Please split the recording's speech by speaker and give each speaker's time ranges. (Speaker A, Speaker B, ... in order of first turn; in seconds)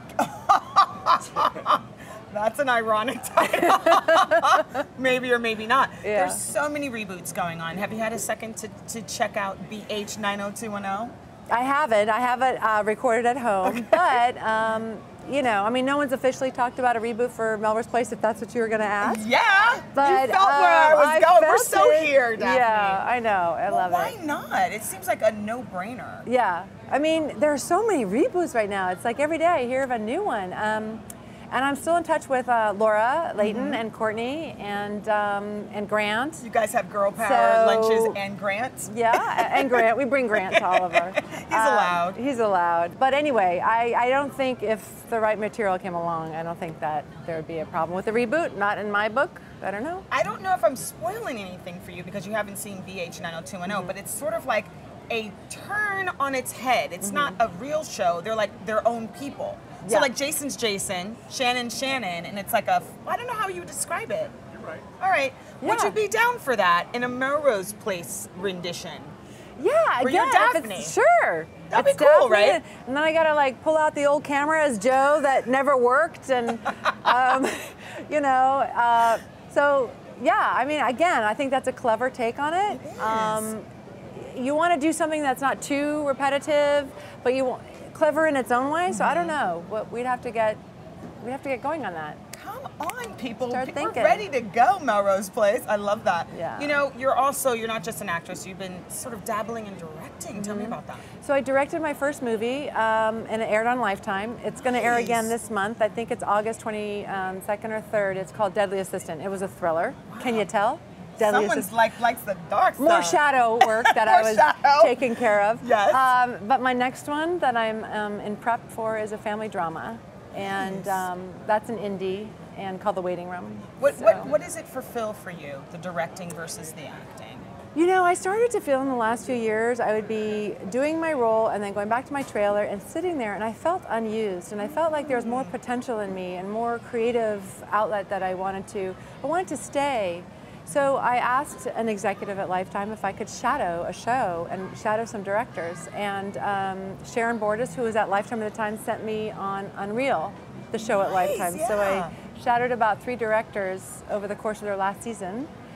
Speaker A: 0.2-11.1, 13.7-14.1, 19.0-23.0, 23.7-26.3, 33.4-33.8, 36.4-42.2, 50.1-64.3, 65.0-69.1, 70.0-71.0, 71.7-72.6, 82.7-83.5, 88.9-89.3, 92.3-101.0, 104.6-105.3, 110.1-110.5, 111.2-115.1, 115.6-116.0, 120.4-121.0, 123.8-127.5, 135.0-135.5, 150.8-152.1
Speaker B: 3.5-4.6, 6.0-6.4, 11.5-19.2, 19.9-24.1, 26.2-36.4, 37.1-38.2, 38.9-50.0, 53.6-53.9, 57.0-57.4, 59.8-60.1, 65.6-66.0, 69.6-90.6, 91.2-92.2, 93.4-94.3, 96.3-96.8, 100.3-111.7, 112.8-124.3, 127.7-155.5